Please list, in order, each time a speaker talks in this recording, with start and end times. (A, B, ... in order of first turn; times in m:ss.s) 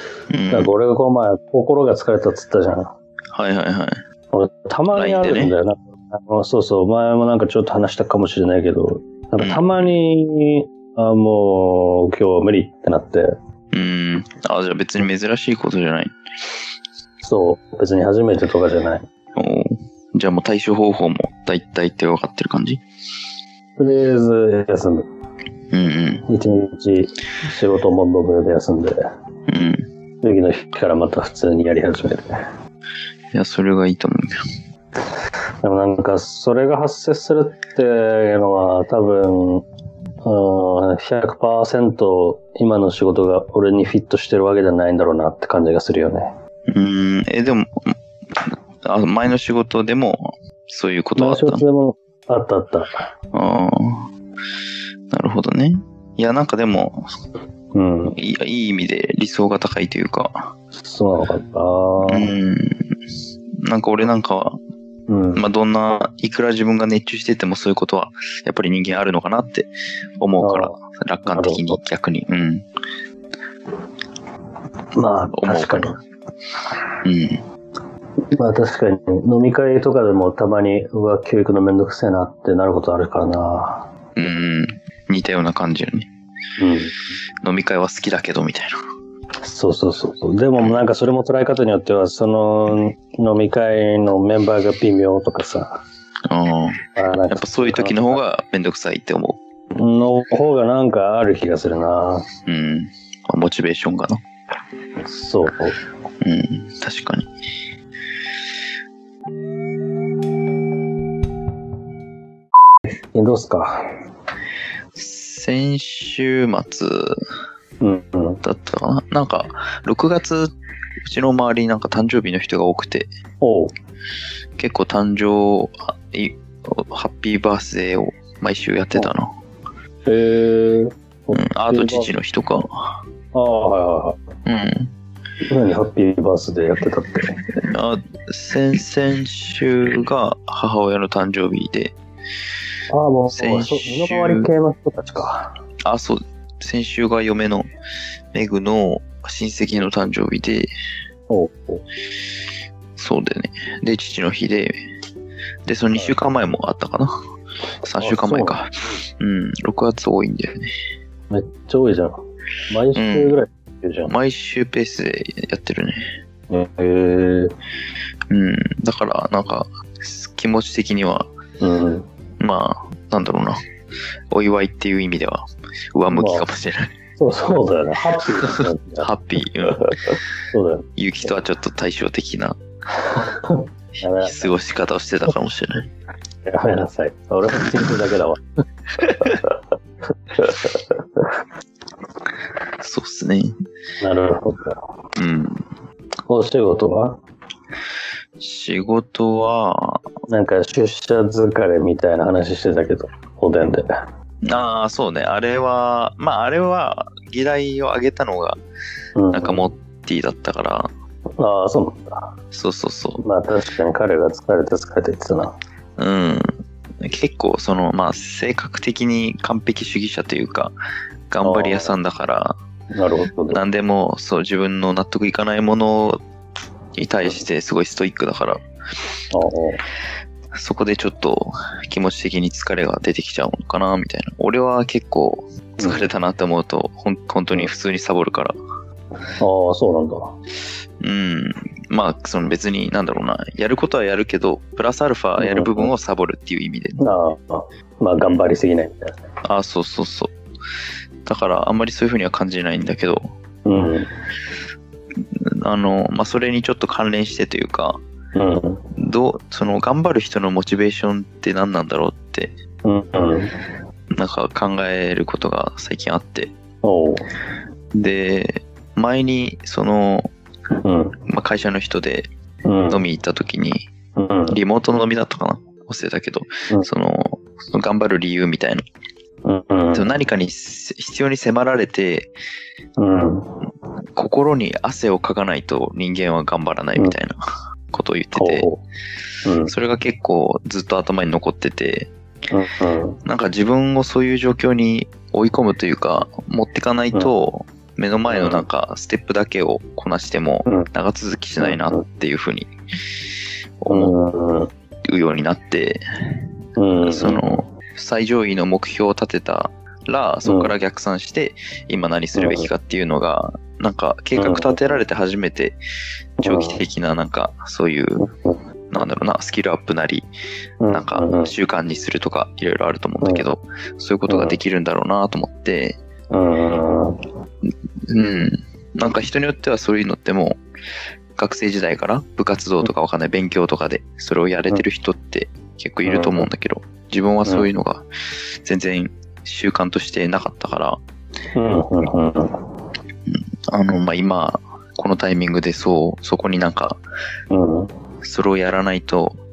0:00.3-0:00.7 A
0:00.5-0:02.9 B
0:03.3-0:04.0 A
0:04.3-0:13.4 B
0:04.9-0:05.6 A
0:09.4-0:10.0 A
0:13.7-0:16.1 A
0:17.2-0:19.1 B
0:19.4-0:22.8 A
0:23.8-0:25.1 B
0:25.7-0:26.3 A
0:26.3-0:29.0 B
0:29.5-0:29.8 A
0:30.2-0:32.4 B
0:33.3-0:34.4 A
0:35.6-0:39.6 B
0:40.2-0:46.3 B
0:46.7-0:51.6 A
0:51.2-0:53.0 B
0:53.3-0:54.1 A
0:55.1-0:57.0 A
0:57.7-0:58.2 B
0:58.2-1:00.3 A
1:00.8-1:02.3 B
1:02.1-1:02.9 A
1:03.6-1:04.6 A
1:05.1-1:05.4 B
1:05.4-1:12.6 A
1:10.4-1:11.8 B
1:15.0-1:16.0 B
1:15.3-1:15.9 A
1:17.0-1:17.4 A
1:18.4-1:23.9 B
1:24.2-1:26.1 A
1:26.6-1:27.0 B
1:27.4-1:28.7 A
1:29.4-1:35.8 B
1:36.3-1:39.4 A
1:37.0-1:38.2 B
1:39.8-1:42.3 B
1:42.5-1:44.2 A
1:45.0-1:45.8 B
1:46.2-1:47.3 A
1:53.2-1:53.8 B
1:55.0-1:57.2 A
1:57.8-1:58.4 B
1:58.4-2:00.5 A
2:01.1-2:03.1 A
2:03.4-2:03.7 B
2:04.6-2:09.3 A
2:10.1-2:12.1 B
2:11.3-2:13.0 A
2:13.3-2:14.2 B
2:14.5-2:14.9 A
2:15.5-2:17.3 B
2:17.7-2:22.0 A
2:22.9-2:25.5 B
2:23.3-2:24.5 A
2:25.8-2:27.7 A
2:28.3-2:30.7 A
2:31.3-2:31.8 B
2:33.0-2:34.7 A
2:35.7-2:37.1 A
2:37.8-2:40.7 A
2:38.0-2:38.6 B
2:41.3-2:42.2 B
2:42.7-2:44.1 B
2:42.9-2:43.4 A
2:44.1-2:46.0 A
2:46.5-2:47.5 B
2:48.3-2:51.3 A
2:51.6-2:52.1 B
2:52.4-2:53.6 A
2:54.3-2:55.4 A
2:56.0-2:56.9 A
2:56.1-2:56.5 B
2:57.2-2:59.1 B
2:58.4-3:00.2 A
2:59.7-3:00.9 B
3:01.0-3:02.6 A
3:03.1-3:04.5 B
3:04.2-3:05.9 A
3:06.5-3:08.4 B
3:09.0-3:09.6 B
3:10.3-3:11.3 B
3:12.8-3:13.5 A
3:14.0-3:14.8 B
3:15.2-3:15.7 A
3:16.3-3:17.2 B
3:18.4-3:20.0 A
3:20.3-3:23.9 B
3:24.5-3:28.6 A
3:29.2-3:29.7 B
3:29.3-3:30.9 A
3:31.4-3:32.3 B
3:32.5-3:33.2 A
3:33.2-3:35.5 B
3:36.0-3:36.5 A
3:37.0-3:40.7 A
3:41.3-3:42.6 A
3:41.4-3:42.0 B
3:42.9-3:43.6 B
3:43.5-3:46.2 A
3:47.0-3:48.6 A
3:49.3-3:49.8 B
3:50.5-3:58.5 A
3:55.8-3:56.1 B
3:59.4-4:00.3 B
4:01.0-4:07.0 A
4:05.4-4:05.9 B
4:07.0-4:09.2 B
4:09.4-4:10.3 A
4:11.3-4:13.2 A
4:13.7-4:14.1 B
4:15.4-4:18.0 A
4:18.4-4:18.8 B
4:19.0-4:22.5 A
4:22.8-4:23.5 B
4:24.2-4:26.5 A
4:26.8-4:27.3 B
4:27.9-4:30.3 A
4:30.8-4:31.2 B
4:31.3-4:32.3 A
4:32.6-4:33.0 B
4:32.9-4:33.9 A
4:34.2-4:34.6 B
4:34.5-4:38.8 A
4:39.4-4:40.2 B
4:39.9-4:42.3 A
4:43.0-4:43.5 B
4:44.2-4:47.4 A
4:47.9-4:48.7 A
4:48.4-4:48.8 B
4:49.4-4:49.7 B
4:49.7-4:52.1 A
4:52.5-4:53.2 B
4:53.2-5:02.7 A
4:58.3-4:58.6 B
5:01.6-5:02.0 B
5:03.8-5:04.1 A
5:03.9-5:04.7 B
5:05.1-5:06.0 A
5:06.8-5:07.6 B
5:07.1-5:15.8 A
5:10.4-5:10.7 B
5:12.4-5:12.7 B
5:14.4-5:15.0 B
5:16.4-5:18.2 A
5:16.4-5:16.8 B
5:18.2-5:18.6 B
5:18.9-5:20.3 A
5:20.8-5:21.5 B
5:20.9-5:26.0 A
5:23.2-5:23.5 B
5:24.3-5:24.6 B
5:26.3-5:27.2 B
5:28.1-5:30.6 A
5:31.4-5:38.0 A
5:36.0-5:36.5 B
5:38.6-5:41.0 A
5:41.6-5:42.6 B
5:43.3-5:47.0 A
5:47.5-5:47.9 B
5:48.2-5:49.4 A